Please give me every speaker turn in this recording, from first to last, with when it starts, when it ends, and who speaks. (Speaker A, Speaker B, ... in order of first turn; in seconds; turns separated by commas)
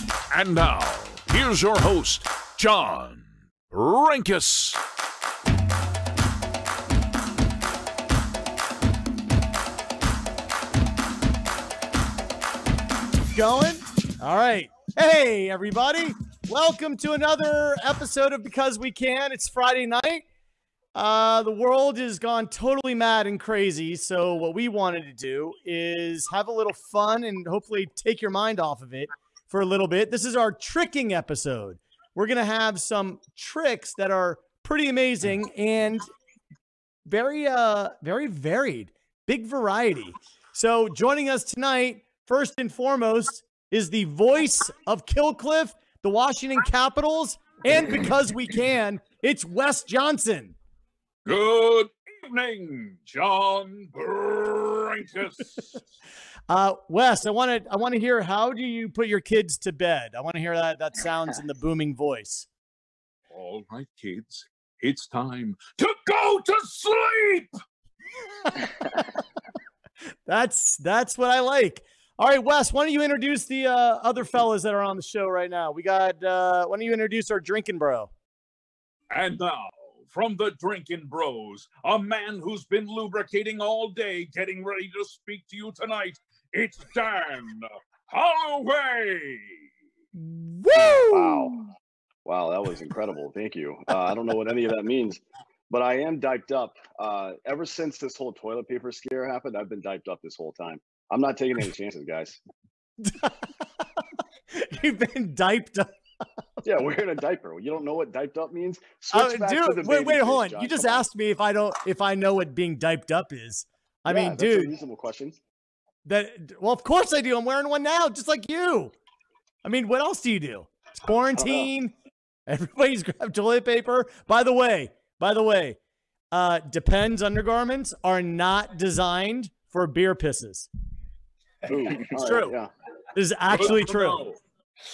Speaker A: 0.3-4.8, Speaker B: 13.3-20.2, Speaker B: 20.9-36.1, Speaker B: 37.1-50.5, Speaker A: 51.2-55.8, Speaker B: 56.5-62.5, Speaker A: 63.3-67.5, Speaker B: 70.3-78.1, Speaker A: 79.1-89.6, Speaker B: 90.2-91.6, Speaker C: 91.1-91.6, Speaker C: 92.2-102.4, Speaker B: 103.0-103.3, Speaker B: 104.5-105.9, Speaker C: 106.6-111.1, Speaker B: 109.1-114.7, Speaker C: 114.1-115.4, Speaker B: 116.0-118.9, Speaker B: 119.6-121.9, Speaker C: 121.4-121.7, Speaker B: 122.5-125.8, Speaker B: 126.3-130.7, Speaker C: 131.7-132.7, Speaker B: 132.1-132.5, Speaker B: 133.1-134.2, Speaker A: 133.5-134.4